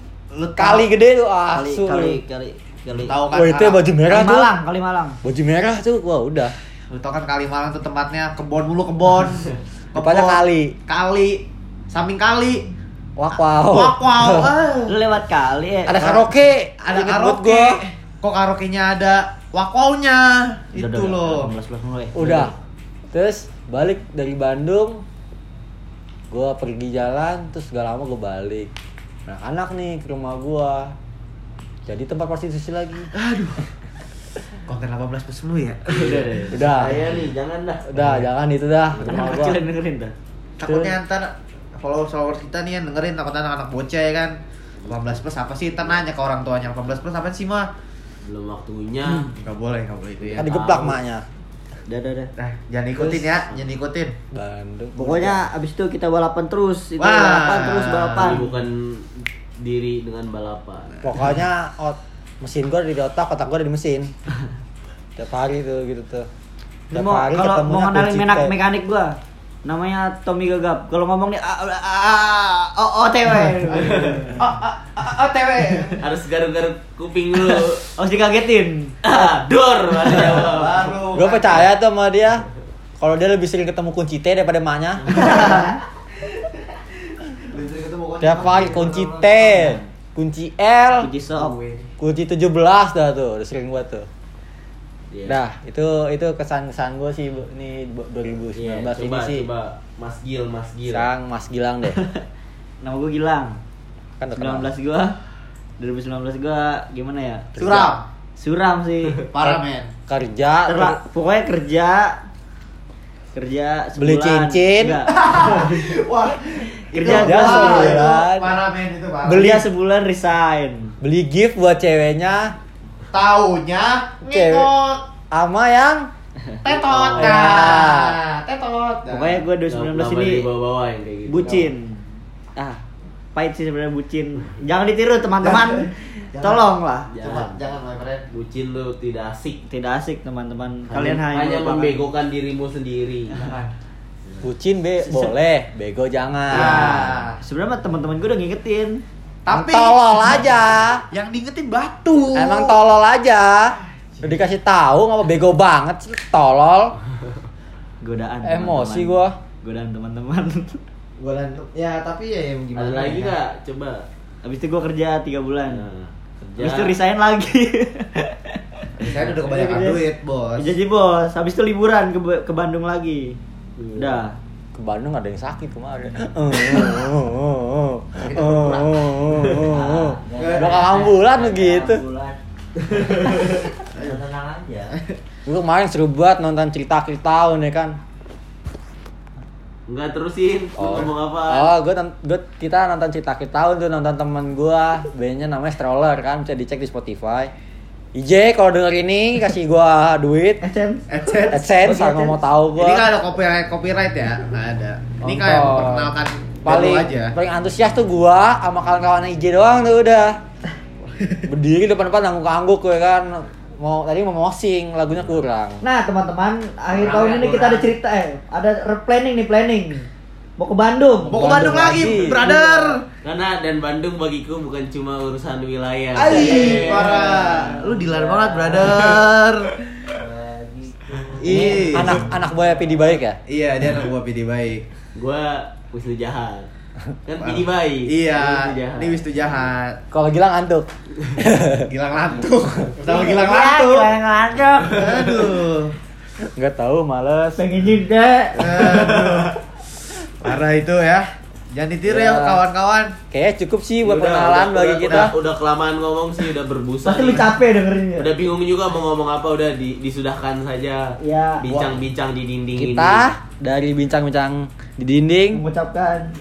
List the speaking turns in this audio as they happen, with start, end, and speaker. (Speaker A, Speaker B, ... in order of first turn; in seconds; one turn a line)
Speaker A: 0.3-0.9
Speaker B: 0.6-2.2
Speaker C: 1.6-3.1
Speaker A: 3.0-4.0
Speaker B: 3.3-4.5
Speaker C: 4.1-5.2
Speaker B: 5.2-6.5
Speaker A: 6.9-12.7
Speaker B: 10.0-10.8
Speaker B: 13.2-14.5
Speaker A: 13.6-15.0
Speaker C: 14.9-16.0
Speaker B: 15.9-17.8
Speaker A: 16.0-16.3
Speaker A: 16.8-21.5
Speaker C: 20.7-22.5
Speaker B: 22.1-22.5
Speaker B: 23.1-25.0
Speaker B: 26.3-28.7
Speaker B: 29.3-30.9
Speaker B: 31.9-33.1
Speaker A: 33.1-33.6
Speaker A: 34.7-37.2
Speaker D: 35.9-38.3
Speaker B: 36.5-37.1
Speaker B: 37.9-39.6
Speaker C: 39.0-40.1
Speaker A: 40.6-47.7
Speaker B: 40.6-41.0
Speaker D: 44.9-45.2
Speaker D: 48.2-49.3
Speaker A: 49.2-50.8
Speaker D: 50.2-51.0
Speaker B: 50.4-51.2
Speaker C: 51.9-52.3
Speaker A: 52.4-54.2
Speaker D: 53.2-53.6
Speaker B: 54.3-55.4
Speaker C: 55.0-58.5
Speaker A: 57.0-58.4
Speaker D: 58.1-61.0
Speaker B: 61.0-64.1
Speaker B: 65.2-66.3
Speaker C: 66.9-74.4
Speaker B: 66.9-68.5
Speaker A: 73.7-76.0
Speaker D: 73.8-74.3
Speaker D: 76.0-77.9
Speaker C: 78.0-79.0
Speaker D: 79.0-80.9
Speaker A: 80.1-81.7
Speaker B: 81.1-82.5
Speaker B: 83.0-85.5
Speaker C: 85.1-85.8
Speaker A: 87.3-89.8
Speaker B: 88.2-91.1
Speaker C: 91.0-91.6
Speaker A: 91.3-91.9
Speaker B: 92.0-94.1
Speaker D: 95.1-95.4
Speaker B: 95.3-99.5
Speaker D: 98.5-101.1
Speaker B: 100.9-102.0
Speaker C: 101.9-102.2
Speaker C: 102.8-103.6
Speaker B: 104.2-104.7
Speaker C: 104.4-105.2
Speaker C: 105.8-109.3
Speaker B: 107.6-107.9
Speaker A: 107.6-108.1
Speaker A: 109.3-109.9
Speaker B: 109.4-111.0
Speaker C: 110.7-112.2
Speaker C: 113.3-116.0
Speaker B: 114.0-115.0
Speaker A: 115.1-119.7
Speaker C: 116.9-118.4
Speaker B: 117.0-118.5
Speaker C: 119.3-121.0
Speaker B: 119.3-119.6
Speaker B: 121.0-122.5
Speaker A: 123.1-125.0
Speaker B: 124.3-124.7
Speaker B: 125.3-126.1
Speaker A: 126.6-129.5
Speaker D: 126.9-127.4
Speaker B: 127.2-128.2
Speaker C: 129.1-130.5
Speaker D: 129.7-131.7
Speaker C: 131.3-132.8
Speaker C: 133.3-137.2
Speaker A: 135.4-138.3
Speaker D: 137.1-137.6
Speaker D: 138.3-139.6
Speaker C: 139.7-142.0
Speaker D: 140.9-143.4
Speaker A: 143.4-143.7
Speaker B: 144.4-147.1
Speaker C: 145.0-145.3
Speaker A: 146.5-147.4
Speaker C: 146.5-149.0
Speaker A: 149.5-150.4
Speaker B: 149.5-151.0
Speaker A: 151.1-152.8
Speaker B: 152.3-157.0
Speaker A: 154.0-154.5
Speaker C: 158.0-160.8
Speaker B: 158.4-159.3
Speaker A: 161.2-163.3
Speaker D: 162.8-164.1
Speaker C: 164.4-165.9
Speaker D: 165.7-167.0
Speaker C: 166.6-170.1
Speaker A: 169.0-170.8
Speaker C: 170.6-173.4
Speaker D: 173.8-174.3
Speaker C: 174.0-174.4
Speaker B: 174.7-182.0
Speaker E: 179.7-182.4
Speaker A: 180.4-180.8
Speaker E: 182.9-185.0
Speaker D: 183.2-183.5
Speaker B: 185.5-188.0
Speaker D: 189.9-191.7
Speaker B: 190.8-197.5
Speaker B: 198.2-200.6
Speaker C: 200.6-202.4
Speaker A: 201.1-201.7
Speaker B: 201.5-203.1
Speaker A: 202.8-207.3
Speaker B: 205.2-206.1
Speaker B: 206.7-210.4
Speaker A: 211.2-211.5
Speaker B: 211.5-215.8
Speaker C: 215.8-220.1
Speaker A: 216.9-217.9
Speaker C: 220.6-223.0
Speaker A: 221.2-223.0
Speaker B: 221.3-222.5
Speaker D: 223.2-227.8
Speaker A: 226.1-230.2
Speaker C: 226.3-227.1
Speaker E: 226.3-229.2
Speaker D: 228.8-229.1
Speaker E: 230.1-233.1
Speaker A: 231.4-232.3
Speaker B: 231.5-233.4
Speaker D: 231.5-232.1
Speaker A: 233.5-234.9
Speaker D: 235.2-236.7
Speaker D: 237.3-239.3
Speaker A: 237.4-240.0
Speaker B: 240.1-241.9
Speaker A: 241.8-244.2
Speaker C: 243.0-245.5
Speaker A: 244.9-245.9
Speaker B: 246.6-247.6
Speaker C: 247.6-249.5
Speaker A: 248.5-249.6
Speaker A: 250.4-253.2
Speaker B: 252.0-252.6
Speaker B: 253.3-255.3
Speaker D: 254.0-257.6
Speaker C: 257.0-258.3
Speaker D: 258.2-263.3
Speaker C: 261.2-261.6
Speaker A: 261.6-262.1
Speaker B: 262.8-265.6
Speaker C: 265.5-266.3